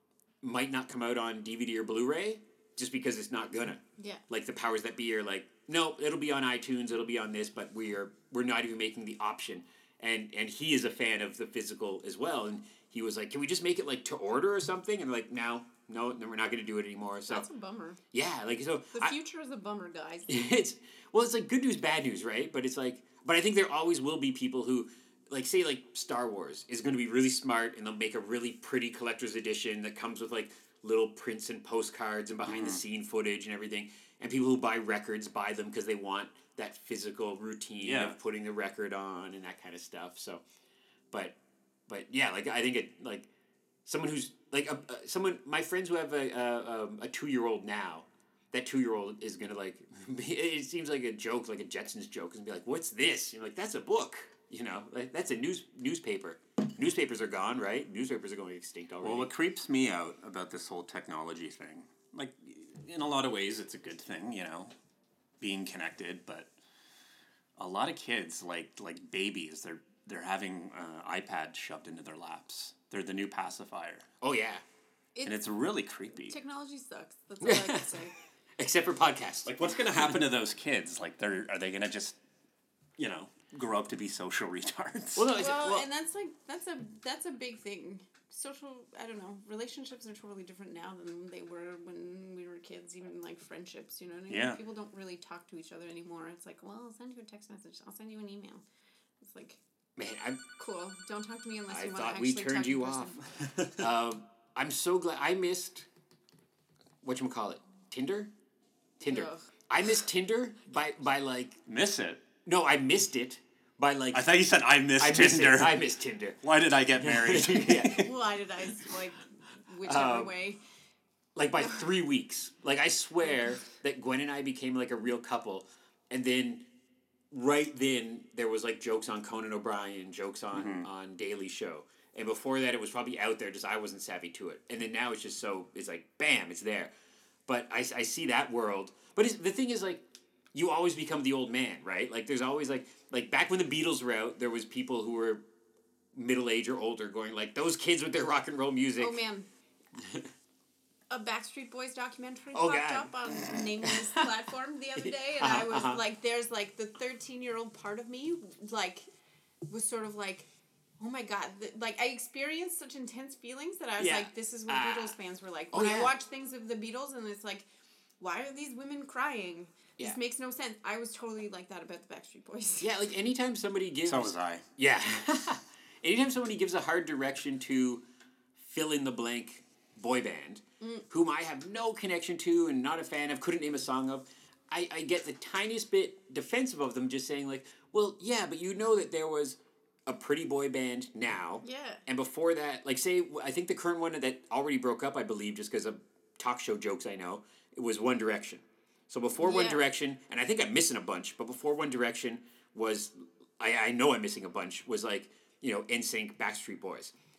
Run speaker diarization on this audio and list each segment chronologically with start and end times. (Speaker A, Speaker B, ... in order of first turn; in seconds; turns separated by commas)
Speaker A: 0.4-17.4, Speaker B: 17.3-18.0, Speaker A: 18.1-19.1, Speaker B: 18.9-20.3, Speaker A: 20.3-40.4, Speaker C: 32.5-32.8, Speaker C: 37.8-38.1, Speaker A: 41.9-43.3, Speaker A: 43.9-59.3, Speaker C: 59.0-64.7, Speaker C: 65.4-66.5, Speaker C: 67.6-74.0, Speaker A: 74.2-74.6, Speaker C: 75.2-76.3, Speaker B: 76.1-78.2, Speaker A: 77.4-78.0, Speaker A: 78.6-79.5, Speaker C: 79.5-82.2, Speaker C: 83.0-85.3, Speaker A: 85.2-85.8, Speaker B: 85.3-98.6, Speaker C: 94.3-94.6, Speaker B: 99.2-99.6, Speaker A: 100.0-100.4, Speaker B: 100.5-103.2, Speaker A: 101.7-103.1, Speaker C: 103.3-103.8, Speaker A: 103.8-105.8, Speaker A: 107.0-108.3, Speaker A: 109.0-111.6, Speaker B: 109.0-109.5, Speaker C: 111.7-112.2, Speaker A: 112.5-114.2, Speaker C: 114.1-115.8, Speaker A: 115.0-118.1, Speaker C: 116.4-118.0, Speaker B: 117.8-120.6, Speaker A: 119.8-120.3, Speaker A: 121.3-126.6, Speaker B: 121.6-121.8, Speaker A: 127.3-136.9, Speaker C: 130.5-130.9, Speaker A: 137.5-140.0, Speaker A: 140.5-145.4, Speaker A: 146.1-149.2, Speaker B: 149.0-149.5, Speaker A: 149.9-150.3, Speaker B: 151.1-159.1, Speaker A: 152.5-154.3, Speaker A: 155.0-156.0, Speaker B: 159.7-160.5, Speaker B: 161.0-167.7, Speaker A: 164.0-165.1, Speaker A: 165.7-166.1, Speaker B: 168.2-173.0, Speaker A: 172.8-178.0, Speaker C: 174.1-174.6, Speaker A: 178.6-207.1, Speaker B: 191.6-192.0, Speaker B: 199.4-199.8